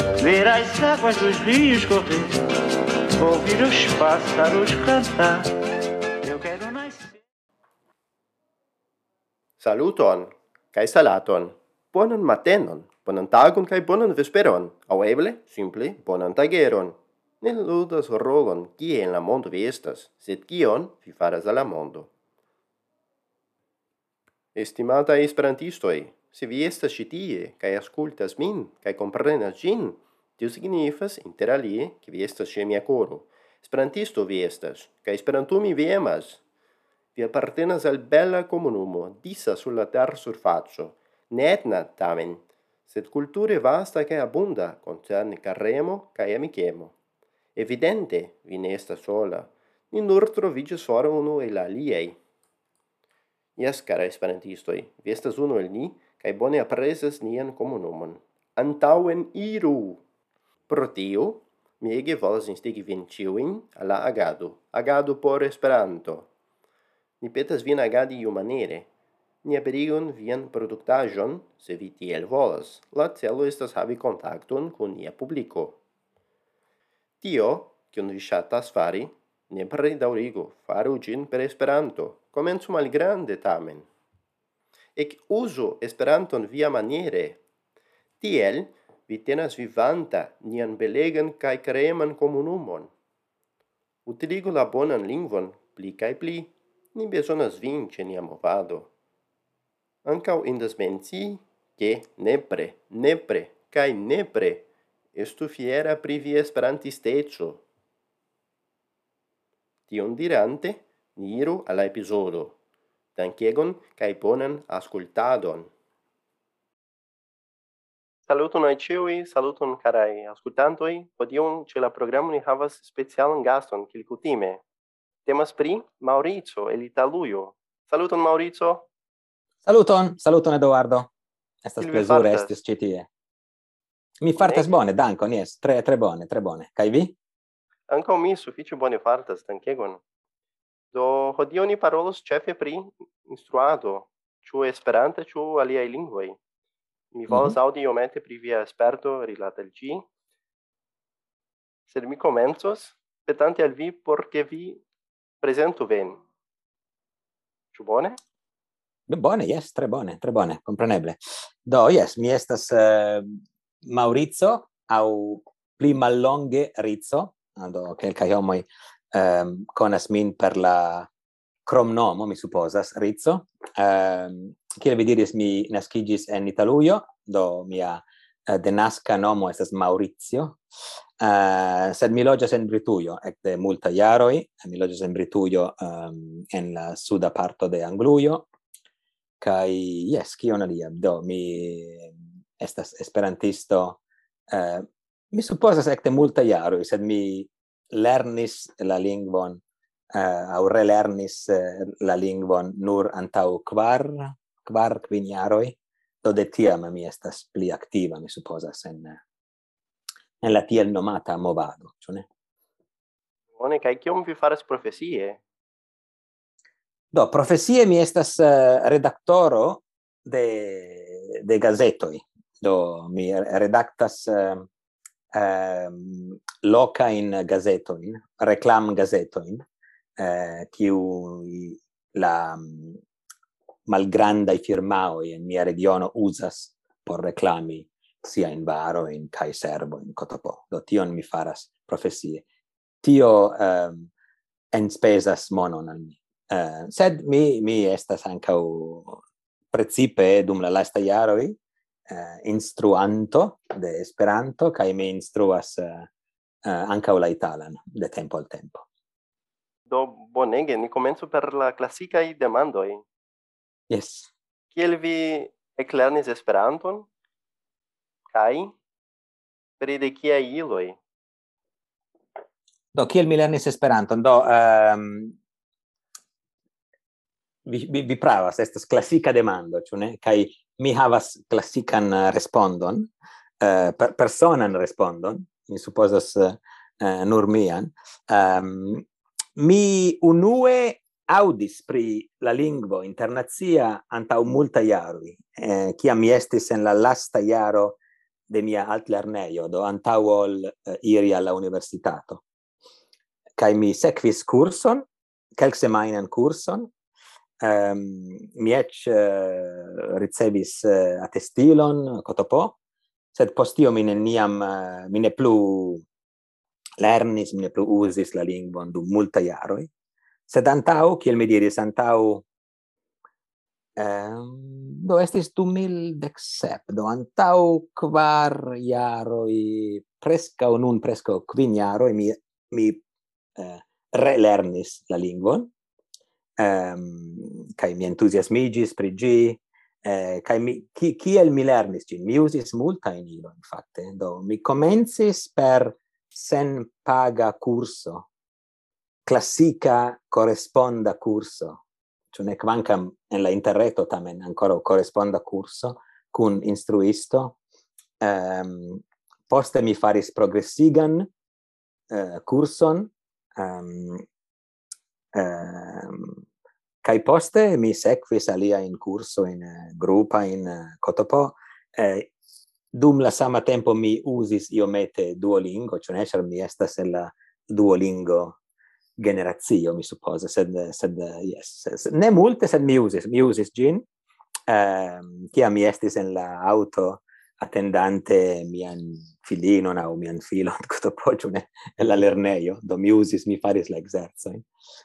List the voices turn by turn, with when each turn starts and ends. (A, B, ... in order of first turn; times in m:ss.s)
0:00.2-0:02.4 A
0:03.2-0:05.5 A
0:06.2-0:07.2 A
0:09.6-0:22.1 B
0:24.6-0:36.4 B
0:37.1-0:46.9 B
0:47.6-0:52.2 B
0:53.6-1:00.0 B
1:00.7-1:06.3 B
1:07.2-1:08.9 B
1:09.4-1:15.8 B
1:17.2-1:23.9 B
1:25.0-1:27.4 B
1:28.2-1:32.9 B
1:34.0-1:38.9 B
1:40.0-1:47.6 B
1:49.9-1:52.6 B
1:53.2-1:55.7 B
1:58.3-2:04.6 B
2:05.2-2:08.9 B
2:09.6-2:11.1 C
2:11.6-2:13.1 C
2:11.8-2:12.5 B
2:14.2-2:17.2 C
2:14.4-2:14.7 B
2:17.9-2:20.0 B
2:20.9-2:26.4 B
2:27.1-2:30.0 B
2:27.3-2:27.6 C
2:31.9-2:34.8 B
2:35.4-2:36.2 B
2:37.7-2:38.2 B
2:39.1-2:51.1 C
2:51.7-3:00.6 C
3:01.2-3:08.5 C
3:09.4-3:29.2 C
3:30.4-3:32.2 C
3:33.6-3:35.4 B
3:37.1-3:44.7 C
3:45.3-3:49.6 C
3:50.2-3:53.0 C
3:53.9-4:02.4 C
4:03.0-4:04.1 C
4:04.7-4:09.2 C
4:09.7-4:16.1 C
4:16.6-4:18.8 C
4:19.9-4:23.0 B
4:23.9-4:24.3 C
4:24.7-4:27.1 B
4:28.3-4:28.7 B
4:29.8-4:31.0 B
4:32.9-4:35.4 C
4:37.6-4:43.1 C
4:43.6-4:49.0 C
4:49.6-5:02.4 C
5:03.6-5:05.0 C
5:05.6-5:06.9 C
5:07.6-5:12.8 C
5:13.3-5:16.0 C
5:17.0-5:19.9 C
5:20.5-5:22.4 C
5:24.0-5:33.0 C
5:33.6-5:35.7 C
5:36.6-5:48.3 C
5:49.2-5:51.8 C
5:52.3-5:57.6 C
5:58.2-6:01.3 C
6:02.1-6:04.2 C
6:05.3-6:06.4 C
6:07.0-6:12.3 C
6:12.9-6:18.6 C
6:19.2-6:24.0 C
6:24.7-6:34.6 C